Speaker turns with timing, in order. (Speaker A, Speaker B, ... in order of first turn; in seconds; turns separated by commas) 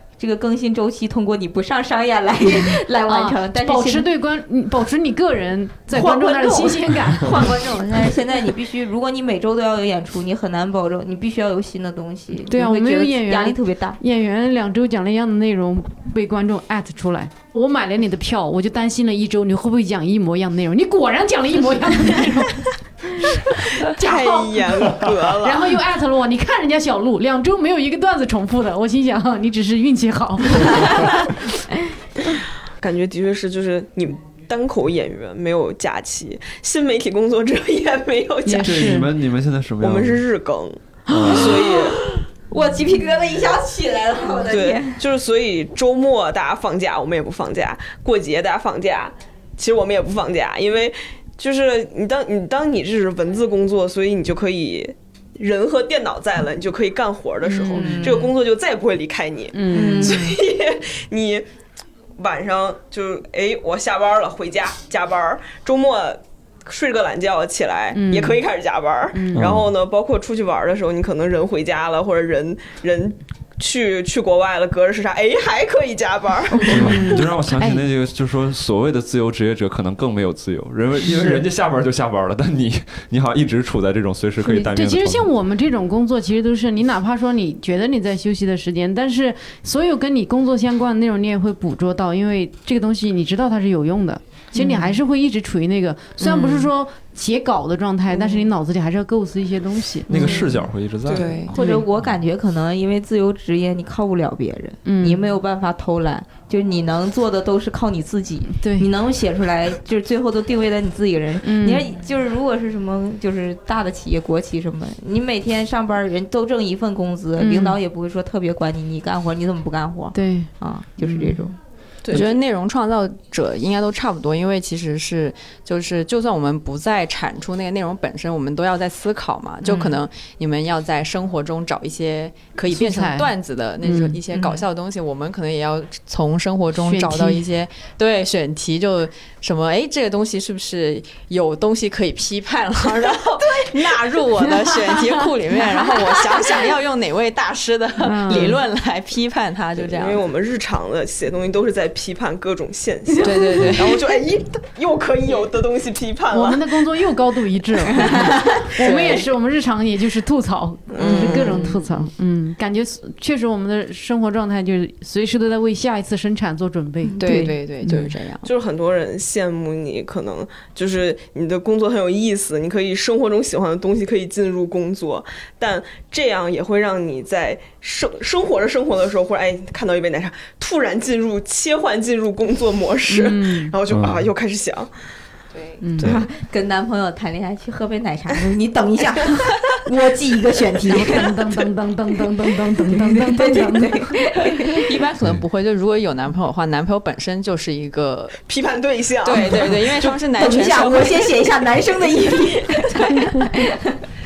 Speaker A: 0.2-4.1, Speaker B: 2.6-7.6, Speaker A: 5.9-14.0, Speaker B: 12.4-31.3, Speaker C: 23.8-25.8, Speaker C: 32.8-39.0, Speaker B: 38.5-39.1, Speaker D: 38.6-40.2, Speaker C: 39.8-42.1, Speaker D: 41.1-41.5, Speaker A: 42.5-45.0, Speaker C: 44.5-61.5, Speaker B: 57.5-58.1, Speaker A: 57.7-58.3, Speaker B: 59.5-60.3, Speaker A: 59.7-60.4, Speaker C: 62.2-77.0, Speaker B: 67.9-68.4, Speaker B: 69.1-69.5, Speaker D: 69.3-69.7, Speaker B: 76.5-77.8, Speaker D: 76.7-85.3, Speaker B: 81.2-81.4, Speaker B: 84.4-100.5, Speaker E: 94.6-94.9, Speaker E: 96.2-96.7, Speaker D: 100.1-101.4, Speaker C: 101.1-101.4, Speaker E: 101.1-101.5, Speaker A: 101.5-121.5, Speaker B: 101.5-101.8, Speaker B: 104.8-105.3, Speaker B: 108.5-108.9, Speaker B: 111.4-111.9, Speaker B: 117.4-117.8, Speaker B: 120.1-121.5, Speaker C: 122.0-122.4, Speaker E: 122.1-150.2, Speaker B: 132.7-133.3, Speaker B: 133.8-134.2, Speaker B: 136.8-137.5, Speaker C: 143.6-144.1, Speaker B: 148.0-148.6, Speaker C: 149.8-156.7, Speaker E: 153.2-154.2, Speaker B: 156.3-168.1, Speaker A: 158.0-158.6, Speaker E: 158.8-159.2, Speaker C: 158.9-159.2, Speaker C: 160.9-161.7, Speaker E: 161.0-162.0, Speaker E: 167.2-168.5, Speaker A: 167.2-167.6, Speaker C: 168.4-184.9, Speaker B: 183.1-183.8, Speaker D: 183.9-184.2, Speaker E: 185.5-185.8, Speaker B: 185.8-186.2, Speaker D: 186.0-186.2, Speaker A: 186.0-191.7, Speaker B: 190.9-194.2, Speaker A: 192.8-195.0, Speaker E: 194.6-198.4, Speaker C: 198.5-200.3, Speaker E: 199.2-201.7, Speaker A: 200.3-204.0